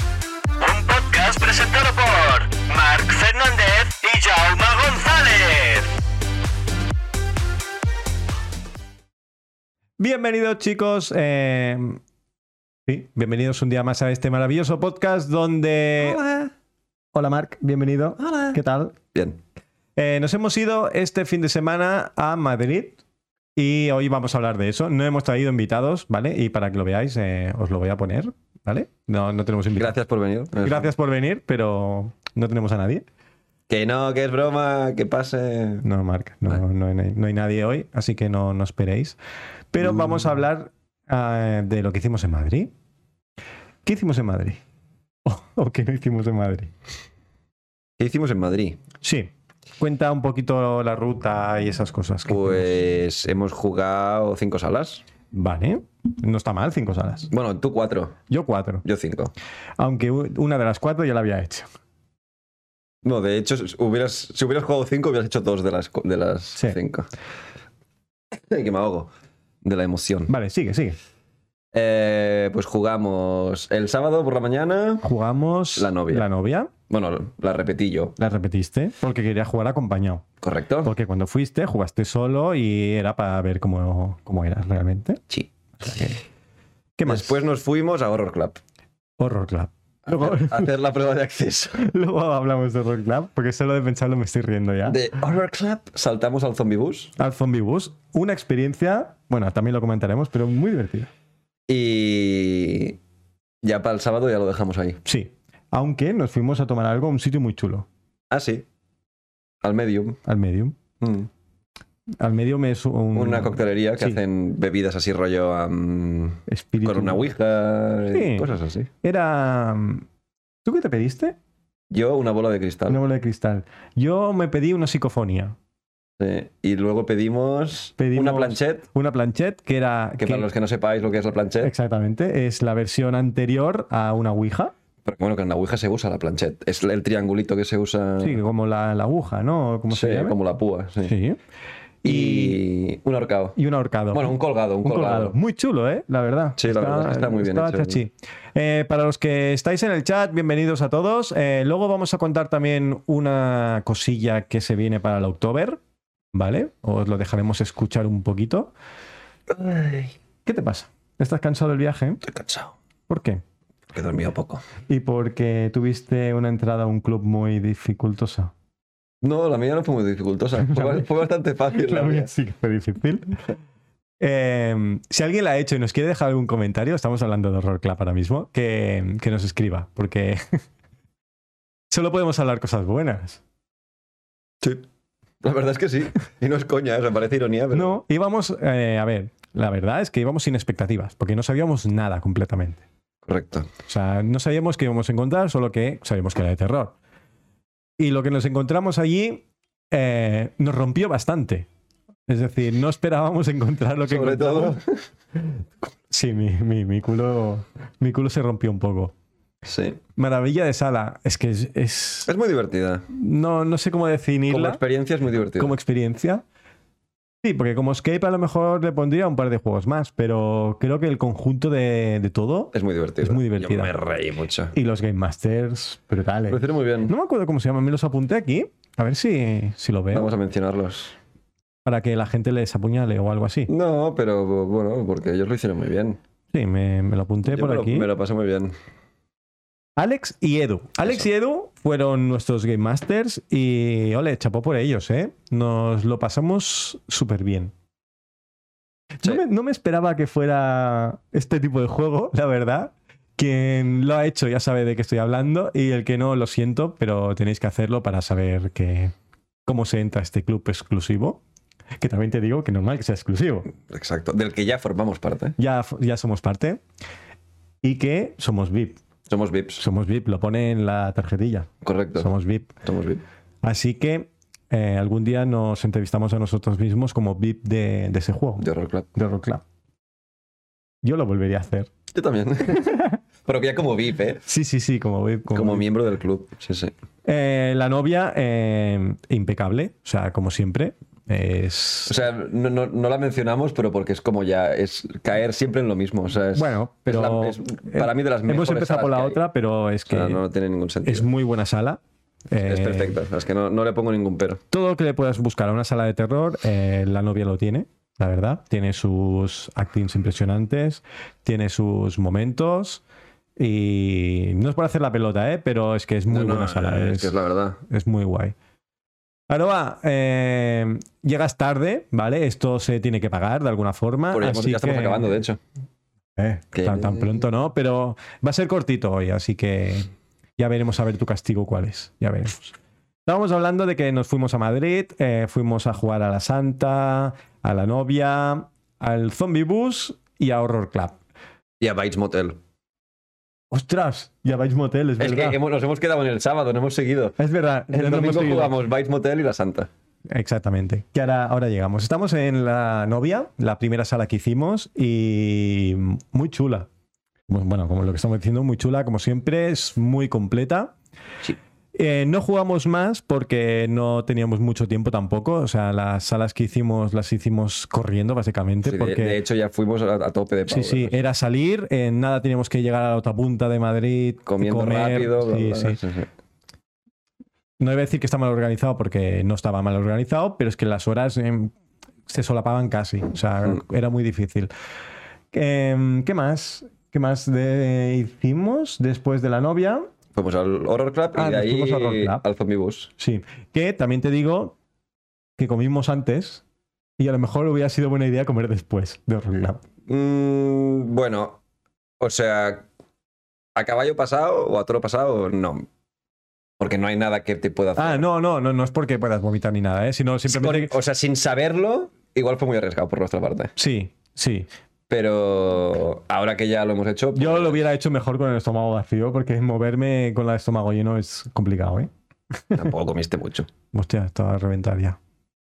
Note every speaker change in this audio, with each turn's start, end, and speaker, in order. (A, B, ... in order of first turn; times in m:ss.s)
0:00.6-0:05.9 A
0:10.0-0:12.0 B
0:12.9-0:16.2 B
0:16.0-0:16.5 C
0:17.1-0:19.0 B
0:18.2-0:18.6 C
0:19.1-0:19.4 C
0:20.0-0:23.0 B
0:23.6-0:30.0 B
0:29.8-0:30.9 C
0:30.6-0:33.0 B
0:33.7-0:35.8 C
0:35.8-0:39.2 B
0:39.7-0:42.7 B
0:39.8-0:40.2 C
0:43.8-0:44.6 B
0:45.3-0:46.7 B
0:48.0-0:48.8 C
0:49.0-0:52.8 B
0:52.3-0:55.0 C
0:55.3-0:57.3 B
0:57.3-0:58.2 C
0:58.3-0:58.8 B
0:58.8-0:59.3 C
0:59.8-1:01.7 B
1:03.0-1:07.1 C
1:08.3-1:10.3 C
1:10.3-1:11.0 B
1:11.7-1:15.1 C
1:15.0-1:16.7 B
1:15.8-1:16.3 C
1:16.9-1:18.2 C
1:18.2-1:20.2 B
1:20.4-1:20.9 C
1:20.8-1:25.2 B
1:25.3-1:26.1 C
1:25.8-1:26.2 B
1:27.0-1:27.5 B
1:27.1-1:28.6 C
1:29.2-1:30.7 B
1:30.1-1:31.9 C
1:31.8-1:35.0 B
1:34.9-1:37.1 C
1:37.2-1:41.1 B
1:41.7-1:43.0 C
1:43.6-1:45.0 C
1:45.0-1:47.9 B
1:48.3-1:48.6 C
1:49.6-1:50.2 C
1:50.2-1:50.8 B
1:51.0-1:51.3 C
1:52.2-1:54.2 B
1:53.1-1:58.9 C
1:56.5-1:57.2 B
1:58.1-1:58.5 B
1:59.0-2:00.0 B
2:00.6-2:01.4 B
2:01.9-2:03.0 C
2:02.9-2:05.6 B
2:06.2-2:08.8 C
2:08.0-2:10.5 B
2:10.2-2:11.7 C
2:11.6-2:14.7 B
2:15.0-2:18.4 C
2:18.2-2:20.4 B
2:19.9-2:21.1 C
2:21.0-2:21.4 B
2:22.0-2:22.6 B
2:22.0-2:23.6 C
2:23.6-2:35.8 B
2:24.1-2:25.4 C
2:26.6-2:28.0 C
2:36.3-2:38.7 B
2:39.5-2:40.1 C
2:40.5-2:42.2 B
2:42.2-2:42.7 C
2:43.1-2:43.4 B
2:43.9-2:44.6 C
2:44.9-2:48.5 B
2:49.2-2:52.3 C
2:50.6-2:51.1 B
2:51.8-2:53.4 B
2:54.2-3:00.6 B
3:01.9-3:03.4 B
3:04.6-3:04.9 C
3:05.4-3:08.0 C
3:07.7-3:12.8 B
3:13.3-3:13.7 C
3:13.9-3:17.0 B
3:18.0-3:21.7 B
3:22.3-3:24.8 B
3:24.1-3:25.1 C
3:26.1-3:29.1 B
3:29.6-3:30.0 C
3:30.2-3:32.3 B
3:32.3-3:33.1 C
3:33.1-3:34.8 B
3:34.5-3:35.8 C
3:35.6-3:36.4 B
3:37.4-3:43.9 B
3:42.7-3:44.7 C
3:44.7-3:50.3 B
3:46.5-3:47.1 C
3:50.1-3:51.2 C
3:51.8-3:53.7 B
3:53.7-3:56.2 C
3:56.5-3:58.1 B
3:57.4-3:58.7 C
4:00.0-4:07.7 B
4:09.2-4:19.1 B
4:19.7-4:21.4 B
4:22.0-4:23.7 B
4:23.8-4:25.6 C
4:25.6-4:26.8 B
4:27.8-4:29.0 B
4:29.3-4:29.8 C
4:29.8-4:32.7 B
4:31.8-4:32.3 C
4:32.8-4:33.2 C
4:33.6-4:39.6 B
4:38.6-4:39.1 C
4:41.0-4:41.9 B
4:42.1-4:44.4 C
4:42.8-4:43.2 B
4:44.4-4:45.8 B
4:45.5-4:46.9 C
4:47.2-4:52.2 B
4:52.1-4:59.4 C
4:56.6-5:00.4 B
5:00.1-5:01.3 C
5:01.0-5:02.0 B
5:02.5-5:03.2 B
5:02.6-5:04.6 C
5:04.7-5:13.0 B
5:13.6-5:18.6 B
5:16.3-5:17.8 C
5:19.5-5:25.3 B
5:24.3-5:25.6 C
5:26.4-5:32.7 B
5:26.7-5:27.4 C
5:33.3-5:41.2 B
5:41.8-5:42.6 C
5:43.7-5:45.6 B
5:45.2-5:47.4 C
5:47.4-5:48.8 B
5:47.9-5:49.9 C
5:50.3-5:56.9 B
5:57.5-6:00.9 B
6:02.0-6:09.4 B
6:08.8-6:11.2 C
6:10.7-6:16.0 B
6:14.4-6:16.3 C
6:17.8-6:21.7 B
6:22.3-6:24.7 B
6:25.5-6:30.1 B
6:30.4-6:33.1 C
6:31.4-6:32.4 B
6:33.2-6:34.8 B
6:35.6-6:36.6 B
6:37.2-6:39.8 B
6:40.1-6:41.6 C
6:42.2-6:42.9 C
6:43.8-6:45.9 C
6:46.8-6:48.2 C
6:48.0-6:50.9 B
6:50.5-6:53.7 C
6:53.8-6:54.7 B
6:55.1-6:57.8 C
6:57.4-7:02.1 B
7:02.7-7:03.7 C
7:03.9-7:05.2 B